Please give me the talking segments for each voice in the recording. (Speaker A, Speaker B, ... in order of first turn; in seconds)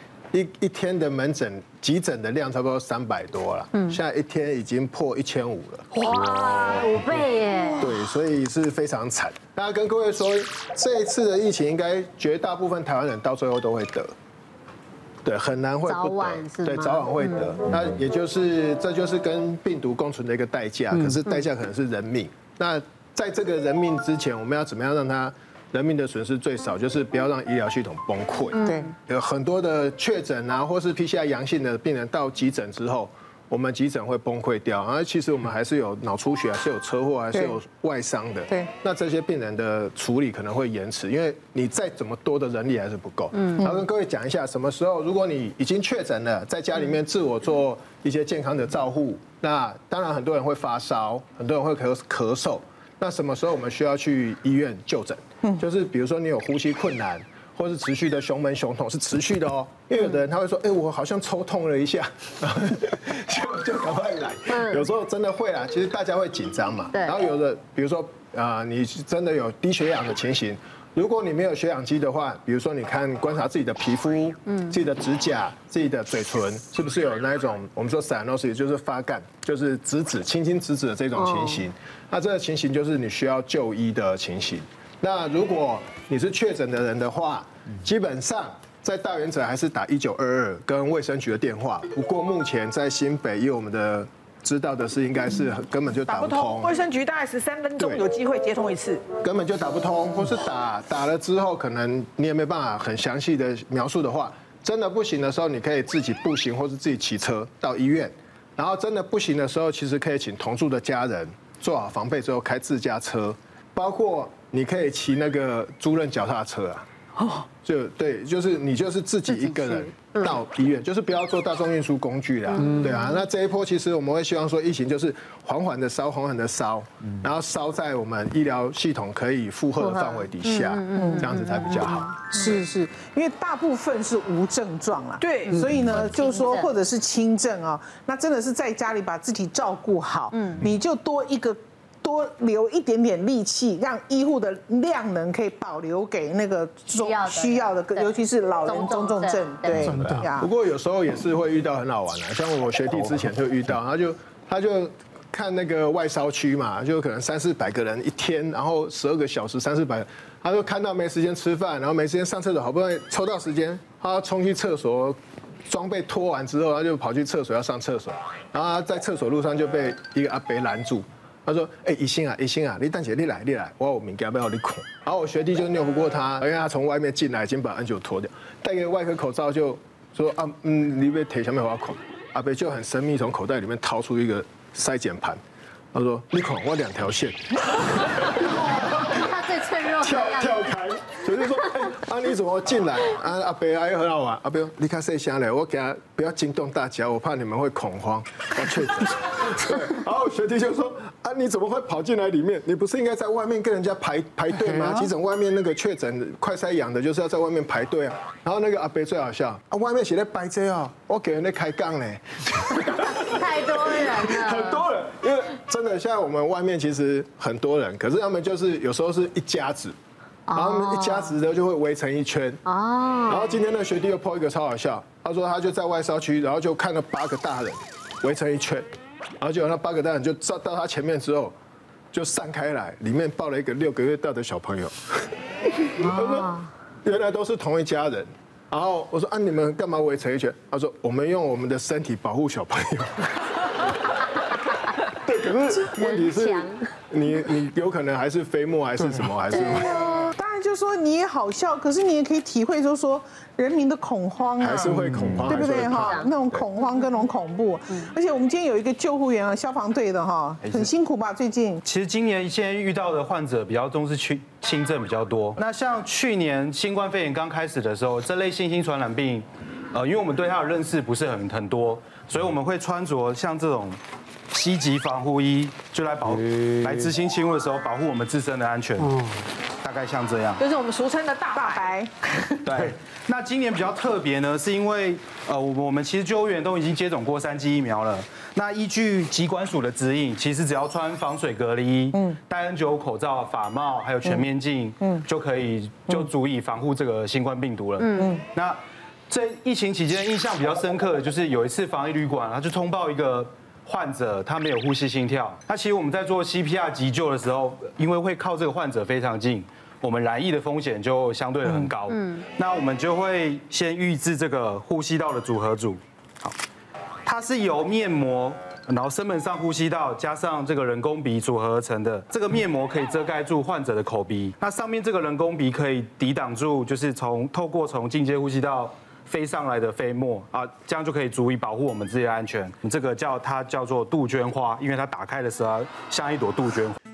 Speaker A: 0.3-5.9, 7.8-14.1, 15.2-96.7, 99.2-116.8, 117.6-132.1, 149.9-185.4, 185.9-188.3, 190.0-220.0, 220.5-222.6, 223.3-228.9, 229.4-231.6, 232.1-243.9, 245.1-249.9, 254.6-256.6
Speaker B: 5.9-7.9, 15.9-17.5, 64.5-64.8, 74.5-74.7, 81.2-81.6, 120.0-120.3, 122.5-123.1, 129.8-132.2, 135.5-136.7, 140.3-140.7, 146.9-148.1, 148.7-149.9, 188.1-190.7, 212.8-214.8, 220.5-221.4, 222.7-223.6, 236.0-236.7, 245.9-246.8, 249.5-250.3, 255.9-256.3, 298.0-298.3
Speaker C: 7.6-8.0, 96.1-99.0, 117.2-117.5, 135.2-135.6, 280.6-282.5
Speaker D: 28.6-28.9, 130.9-131.3, 132.3-150.5, 249.5-261.8, 281.5-282.3, 298.2-298.4
Speaker E: 260.6-260.9, 261.9-274.0, 274.5-279.2, 279.8-280.6, 282.6-316.5, 317.2-337.0